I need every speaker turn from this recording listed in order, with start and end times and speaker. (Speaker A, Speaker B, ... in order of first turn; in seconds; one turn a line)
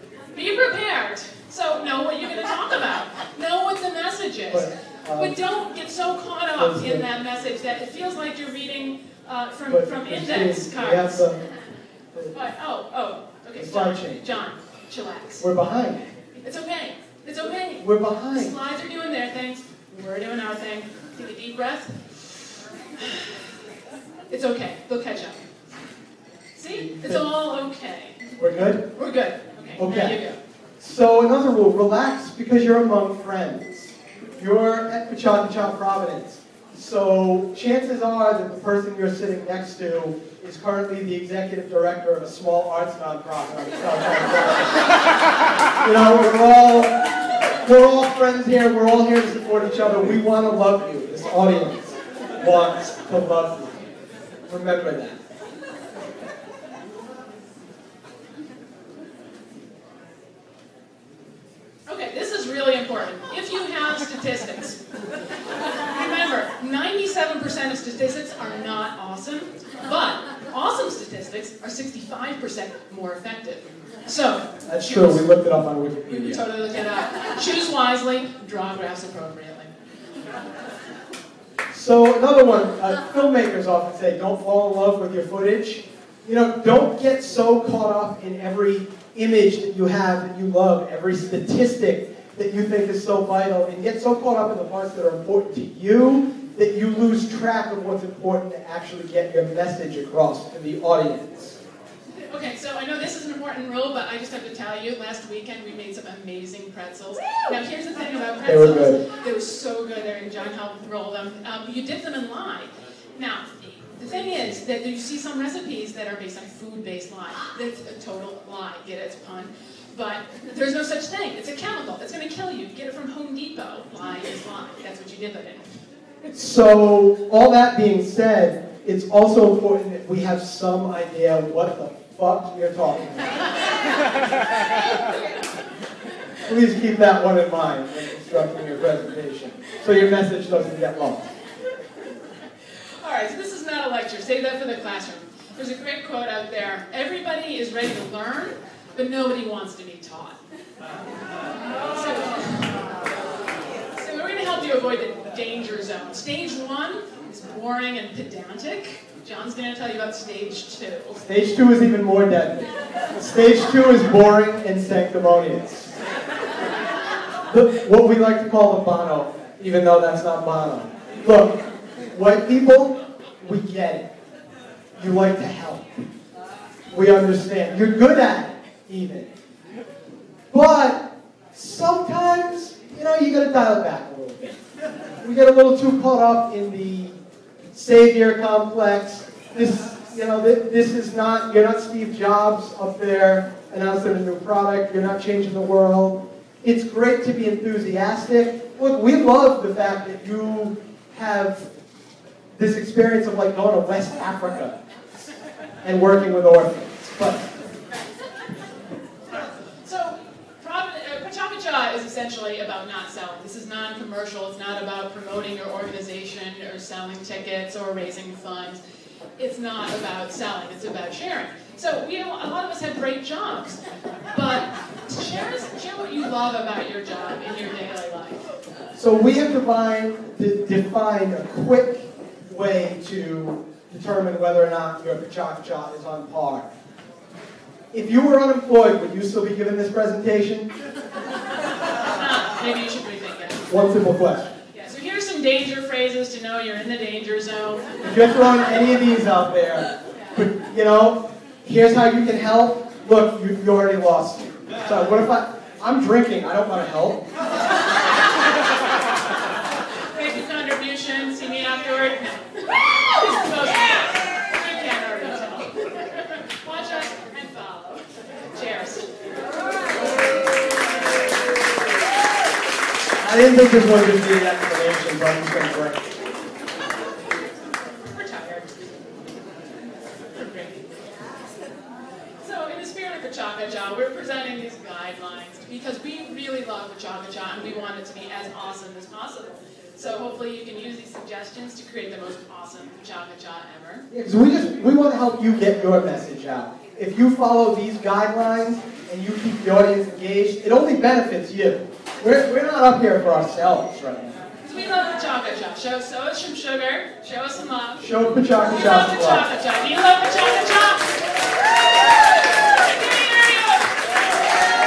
Speaker A: 0.3-11.3
Speaker B: 4.5-5.4
Speaker B: 6.6-7.1
Speaker B: 9.7-11.4
Speaker A: 12.3-15.5
Speaker B: 13.6-14.2
Speaker B: 15.4-16.1
Speaker A: 16.4-23.5
Speaker B: 17.8-18.6
Speaker A: 24.3-25.5
Speaker A: 26.6-28.3
Speaker B: 26.7-27.2
Speaker B: 28.4-28.9
Speaker A: 28.9-30.4
Speaker B: 29.8-30.2
Speaker B: 30.8-44.9
Speaker B: 45.8-47.0
Speaker B: 47.6-53.8
Speaker B: 54.5-55.2
Speaker A: 61.9-64.8
Speaker A: 65.7-75.3
Speaker B: 74.7-76.4
Speaker A: 76.1-79.7
Speaker B: 81.7-101.6
Speaker A: 102.2-125.6
Speaker B: 108.5-109.0
Speaker B: 126.2-133.5
Speaker A: 134.7-135.0
Speaker B: 136.4-141.3
Speaker A: 143.0-150.4
Speaker A: 151.9-153.0
Speaker A: 153.9-161.2
Speaker B: 161.2-166.0
Speaker B: 167.5-171.6
Speaker B: 172.1-174.1
Speaker B: 175.0-176.1
Speaker B: 176.9-179.3
Speaker B: 180.5-184.6
Speaker B: 185.2-187.2
Speaker B: 187.7-201.7
Speaker B: 202.6-204.8
Speaker B: 205.8-207.5
Speaker A: 209.3-218.8
Speaker A: 219.4-228.4
Speaker B: 228.9-236.7
Speaker B: 237.9-240.7
Speaker A: 242.0-243.7
Speaker B: 243.7-244.5
Speaker A: 244.7-247.9
Speaker B: 248.0-257.3
Speaker A: 259.9-269.1
Speaker B: 273.2-276.1
Speaker A: 278.0-278.8
Speaker A: 280.4-280.9
Speaker A: 282.4-294.1
Speaker B: 294.1-304.4
Speaker A: 304.6-311.1
Speaker B: 308.0-309.5
Speaker A: 312.7-314.0